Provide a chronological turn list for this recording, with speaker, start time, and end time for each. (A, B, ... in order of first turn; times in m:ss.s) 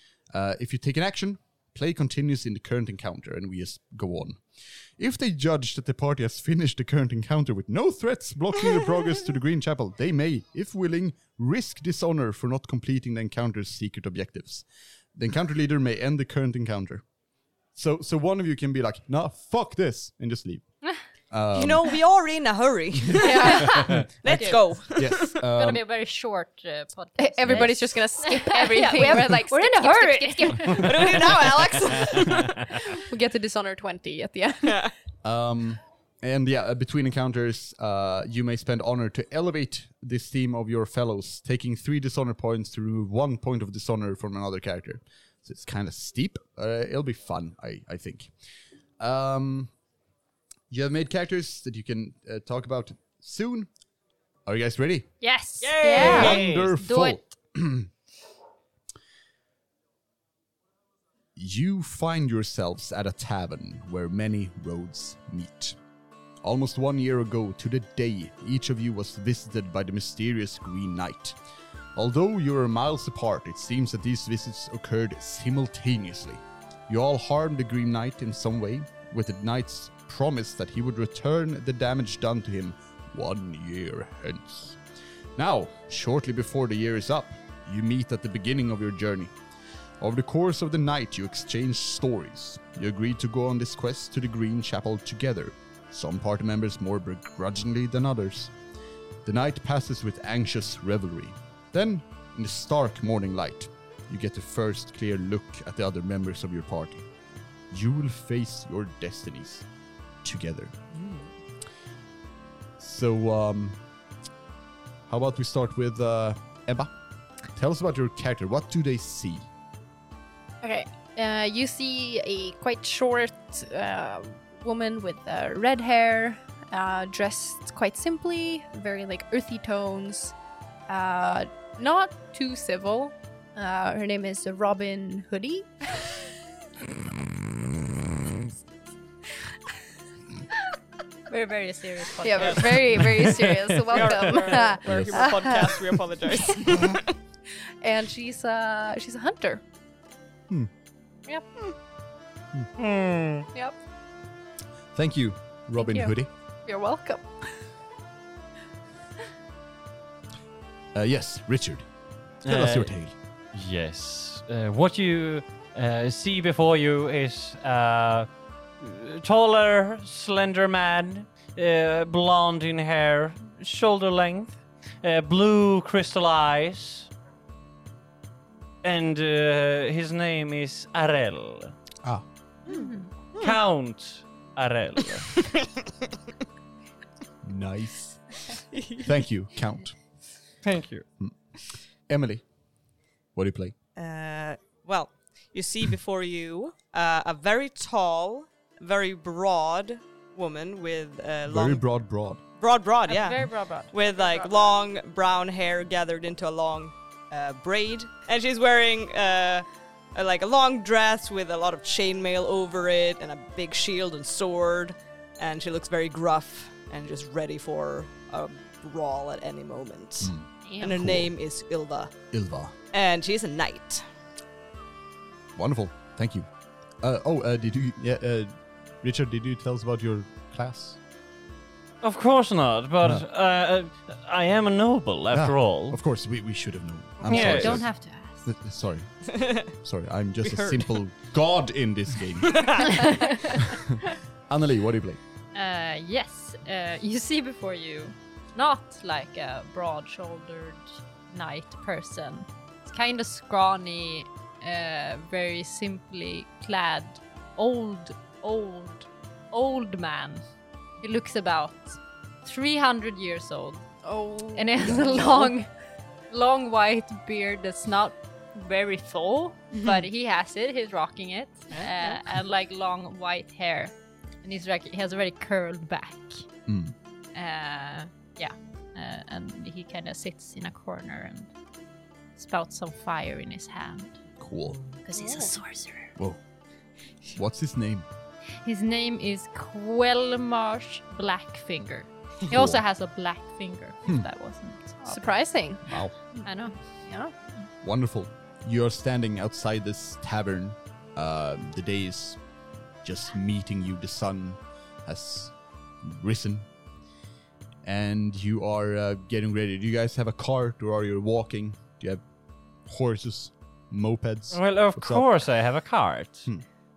0:00.3-0:04.4 A
0:05.0-0:17.0 A
0:17.7-0:20.6 A
0:21.3-0:22.0 A
0:21.5-0:25.3 B
0:23.2-0:24.1 C
0:23.8-0:25.8 A
0:24.3-0:31.3 D
0:27.2-0:31.4 C
0:27.5-0:27.7 A
0:30.7-0:32.6 B
0:32.0-0:34.9 C
0:34.6-0:34.9 B
0:35.2-0:48.3 A
0:49.0-0:49.7 A
0:50.7-0:53.7 A
0:54.4-0:55.1 A
0:55.2-0:57.2 D
0:55.6-0:56.6 B
0:55.8-0:56.4 C
0:56.0-0:57.9 A
1:01.4-1:05.8 A
1:06.4-1:11.4 A
1:11.9-1:24.8 A
1:25.4-1:29.3 A
1:30.0-1:38.5 A
1:39.2-1:47.1 A
1:47.7-1:49.6 A
1:50.2-1:50.8 A
1:51.0-1:51.2 B
1:52.8-1:53.8 A
1:55.1-1:56.9 A
1:57.5-1:59.4 A
2:00.6-2:10.3 C
2:10.9-2:16.2 C
2:21.3-2:23.1 D
2:22.2-2:27.0 C
2:22.4-2:22.7 B
2:23.0-2:24.1 E
2:23.9-2:27.0 B
2:24.9-2:25.2 A
2:27.8-2:29.6 C
2:31.3-2:31.7 C
2:32.8-2:33.5 E
2:34.9-2:36.3 A
2:35.8-2:36.1 C
2:36.6-2:37.3 C
2:40.9-2:41.9 A
2:42.4-2:43.1 A
2:42.4-2:42.9 E
2:43.5-2:48.3 E
2:48.8-2:57.1 E
2:58.8-3:01.7 E
3:02.7-3:03.1 D
3:03.4-3:05.5 E
3:05.4-3:05.6 B
3:07.4-3:08.2 A
3:08.7-3:09.0 B
3:09.0-3:09.9 A
3:10.6-3:11.0 E
3:12.1-3:12.4 A
3:13.3-3:13.7 A
3:14.0-3:21.8 B
3:21.5-3:22.4 A
3:22.6-3:42.1 B
3:23.1-3:24.7 D
3:40.2-3:41.3 A
3:40.6-3:41.0 D
3:42.3-3:42.7 A
3:42.9-3:44.0 B
3:45.6-3:46.5 A
3:47.0-3:51.0 A
3:52.0-3:56.0 E
3:55.3-3:57.9 A
3:57.2-3:57.8 E
3:57.2-3:58.5 D
3:58.4-3:59.1 A
3:59.3-3:59.7 B
3:59.7-4:05.2 A
4:00.4-4:00.9 B
4:02.4-4:03.0 B
4:03.0-4:03.3 D
4:05.5-4:20.4 D
4:21.0-4:23.8 D
4:24.0-4:25.2 C
4:24.5-4:25.7 D
4:26.3-4:36.5 D
4:31.7-4:32.2 B
4:36.7-4:36.9 A
4:37.3-4:41.5 D
4:42.4-4:44.2 D
4:44.4-4:44.8 A
4:45.0-4:46.1 D
4:45.2-4:45.5 C
4:46.2-4:46.4 A
4:47.3-4:48.1 A
4:48.6-4:55.5 D
4:52.5-4:52.8 A
4:55.1-4:57.3 C
4:55.8-4:56.1 A
4:56.4-4:56.8 D
4:57.8-5:02.4 A
5:03.0-5:06.7 A
5:07.8-5:12.2 A
5:12.8-5:15.3 A
5:14.5-5:16.5 E